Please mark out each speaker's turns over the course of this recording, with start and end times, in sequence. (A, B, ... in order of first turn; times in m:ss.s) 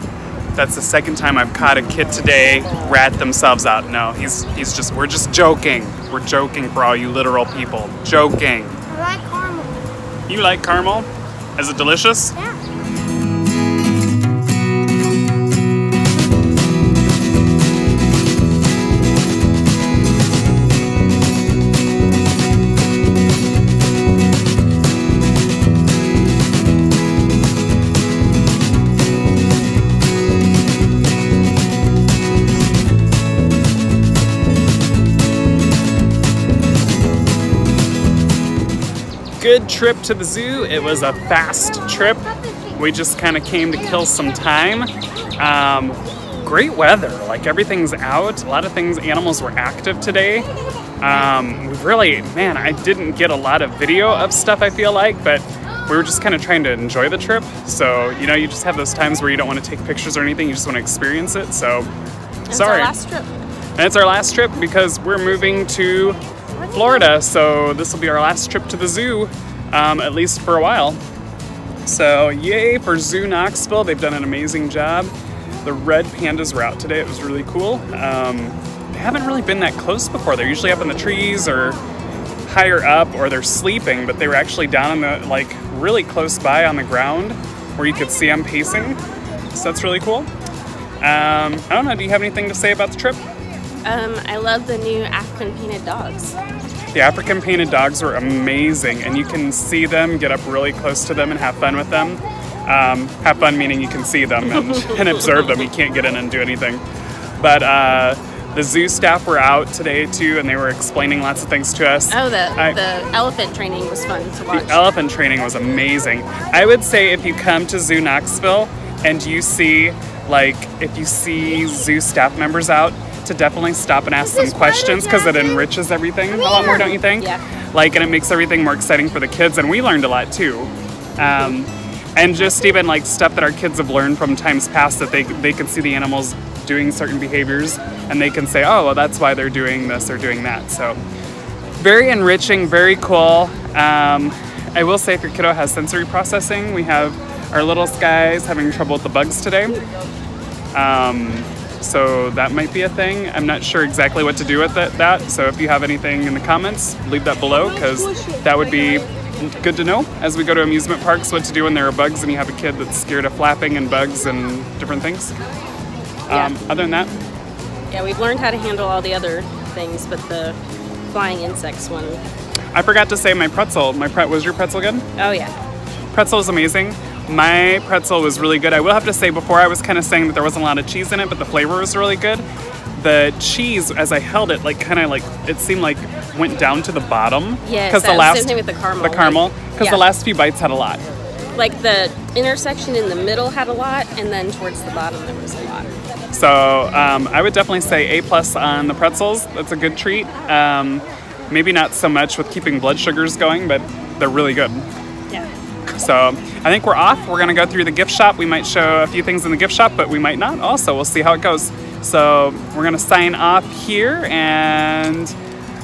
0:00.5-0:08.8 A
0:08.9-0:09.8 B
0:10.3-0:12.4 A
0:39.4-0:50.5 A
0:51.0-1:01.9 A
1:02.5-1:03.4 C
1:02.5-1:02.9 A
1:03.8-1:11.0 A
1:11.8-1:15.1 A
1:15.6-1:21.8 A
1:22.4-1:29.0 A
1:29.5-1:30.3 A
1:31.0-1:33.2 A
1:33.8-1:36.4 C
1:36.9-1:46.8 A
1:47.4-1:52.8 A
1:52.1-1:54.9 C
1:54.5-2:21.0 A
2:04.2-2:05.6 B
2:06.5-2:07.4 C
2:21.8-2:29.8 A
2:30.7-2:45.4 A
2:46.3-2:47.2 A
2:46.3-2:46.6 C
2:47.9-2:50.6 C
2:51.1-2:52.2 C
2:52.7-2:55.0 A
2:55.2-2:55.6 C
2:56.1-3:11.0 A
3:07.6-3:10.0 C
3:11.6-3:15.9 C
3:16.3-3:24.9 A
3:25.9-3:35.3 A